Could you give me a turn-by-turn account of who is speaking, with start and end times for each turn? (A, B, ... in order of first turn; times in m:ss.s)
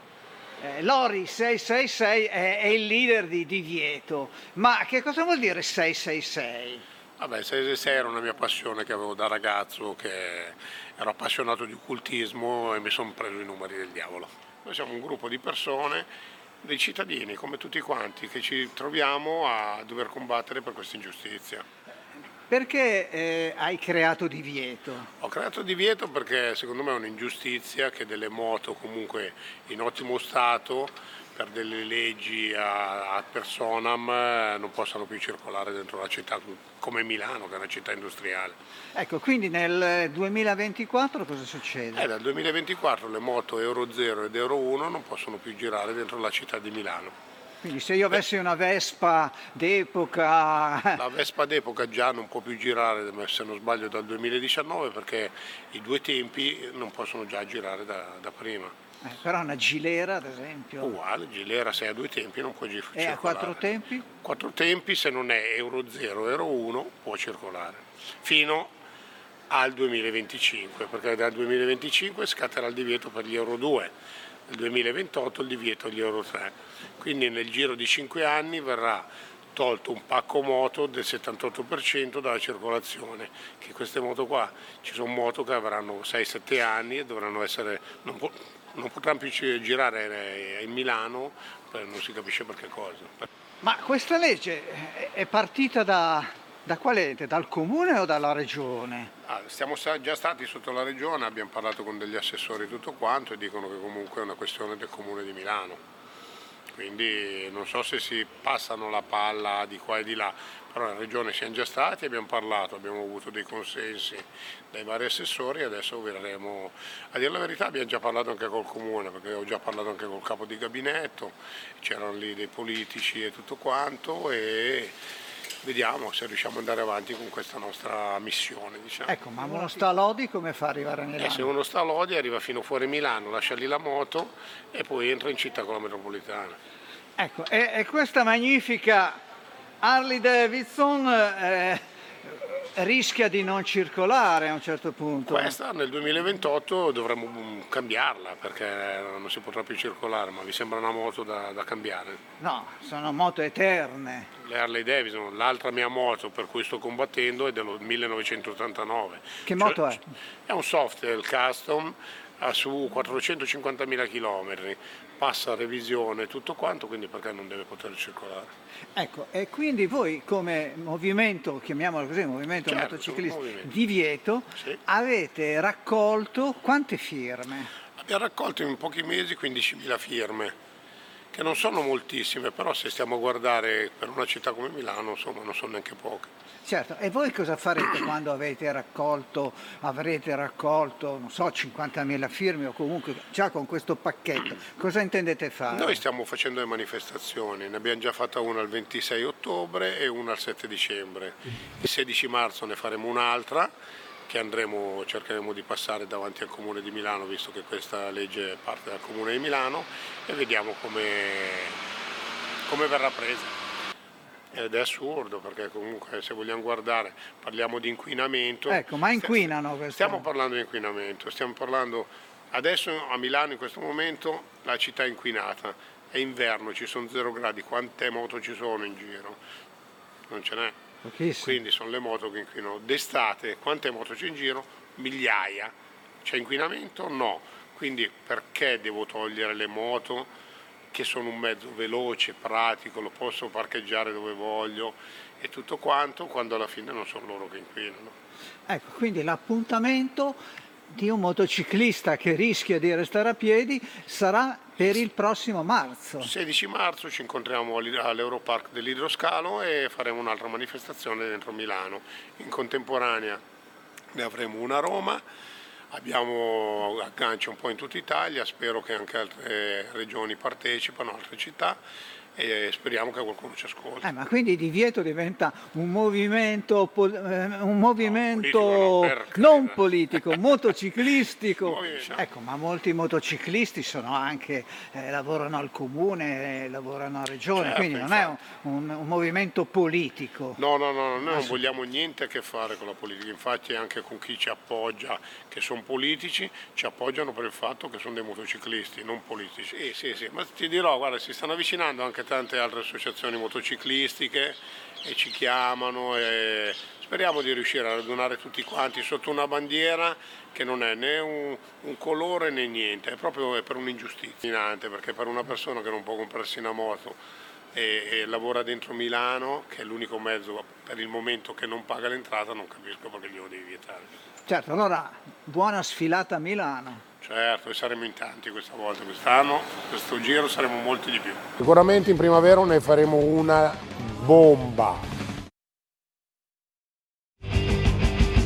0:00.6-0:06.8 A
0:07.2-0:16.1 B
0:16.6-0:21.6 B
0:22.5-0:25.1 A
0:25.2-0:38.6 B
0:39.0-0:42.0 A
0:41.9-0:47.1 B
0:47.6-0:51.0 A
0:51.0-0:58.7 B
0:59.0-1:00.9 A
1:00.8-1:03.7 B
1:02.9-1:04.1 A
1:04.2-1:08.7 B
1:09.5-1:13.9 B
1:14.5-1:33.3 B
1:33.6-1:39.1 A
1:39.2-1:45.8 B
1:46.7-2:05.0 B
2:05.6-2:09.2 B
2:09.1-2:11.5 A
2:11.2-2:16.6 B
2:17.2-2:19.2 A
2:19.8-2:21.8 A
2:22.8-2:25.6 A
2:25.3-2:32.2 B
2:32.4-2:34.3 A
2:34.4-2:48.5 B
2:39.4-2:40.0 A
2:49.0-2:57.7 A
2:52.6-2:53.7 B
2:58.0-3:00.6 B
3:01.3-3:06.3 B
3:06.6-3:16.0 A
3:15.7-3:23.7 B
3:24.3-3:31.8 B
3:32.7-3:33.6 B
3:34.5-3:49.4 B
3:38.7-3:40.3 A
3:50.3-3:50.8 B
3:51.0-3:51.6 A
3:51.4-4:00.3 B
4:00.9-4:08.2 B
4:08.7-4:16.3 A
4:16.2-4:23.4 B
4:24.1-4:25.2 B
4:25.9-4:31.8 B
4:32.4-4:34.1 B
4:34.0-4:50.6 A
4:38.0-4:40.8 B
4:41.6-4:42.3 B
4:47.5-4:48.4 B
4:50.6-5:17.2 B
4:51.2-4:51.6 A
5:17.7-5:24.1 B
5:24.5-5:27.0 A
5:27.2-5:31.4 B
5:31.6-5:35.0 C